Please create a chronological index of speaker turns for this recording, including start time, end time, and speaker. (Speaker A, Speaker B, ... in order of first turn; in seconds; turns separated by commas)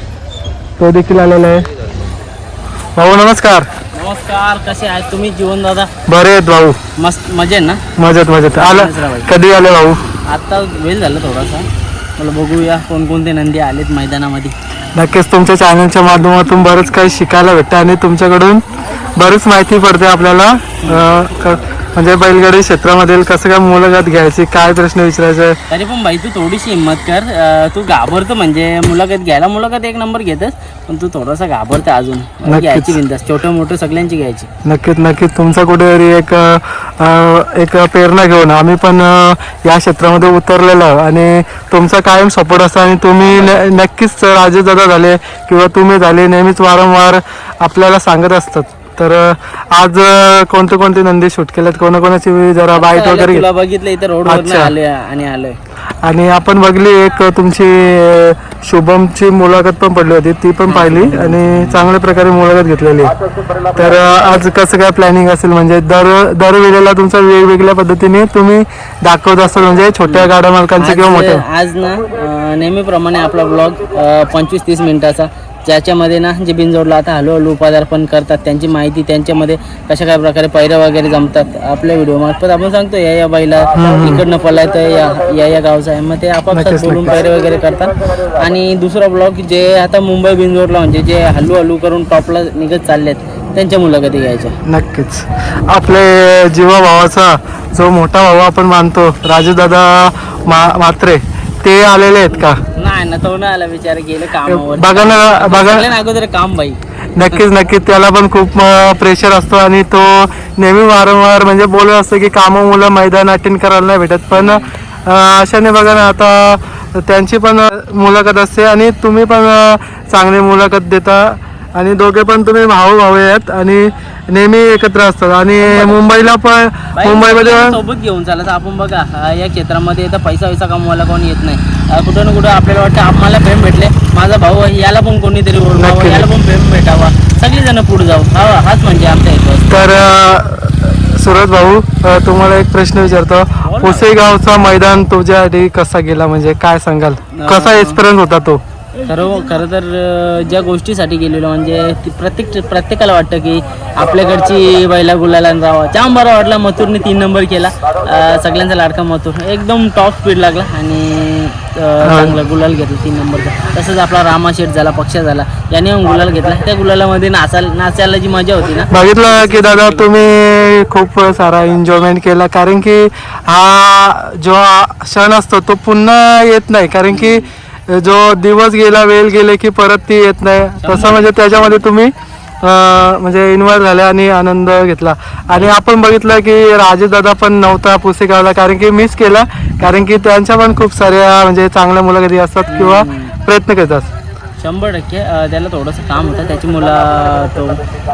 Speaker A: 0.8-1.7, Speaker A: 3.0-3.7, Speaker B: 3.9-5.9, Speaker A: 6.1-6.8, Speaker B: 7.0-7.8, Speaker A: 8.0-10.0, Speaker B: 8.5-9.3, Speaker B: 10.3-14.5, Speaker A: 14.9-18.6, Speaker A: 19.1-25.6, Speaker B: 25.7-34.5, Speaker A: 32.4-33.0, Speaker A: 34.6-53.5, Speaker B: 52.7-55.6, Speaker A: 54.2-54.7, Speaker A: 56.0-63.1, Speaker B: 60.7-61.9, Speaker A: 63.7-71.4, Speaker B: 70.0-94.6, Speaker A: 83.8-84.2, Speaker A: 86.5-87.1, Speaker A: 94.7-102.6, Speaker B: 102.3-106.8, Speaker A: 104.5-105.9, Speaker A: 107.1-127.8, Speaker B: 114.3-114.7, Speaker B: 125.6-126.2, Speaker B: 126.9-139.9, Speaker A: 135.8-136.3, Speaker A: 139.7-148.6, Speaker B: 143.6-144.1, Speaker B: 147.3-148.0, Speaker B: 149.0-170.3, Speaker A: 162.0-162.3, Speaker A: 168.9-194.1, Speaker B: 177.1-177.5, Speaker B: 180.8-181.6, Speaker B: 192.7-193.3, Speaker B: 194.6-197.8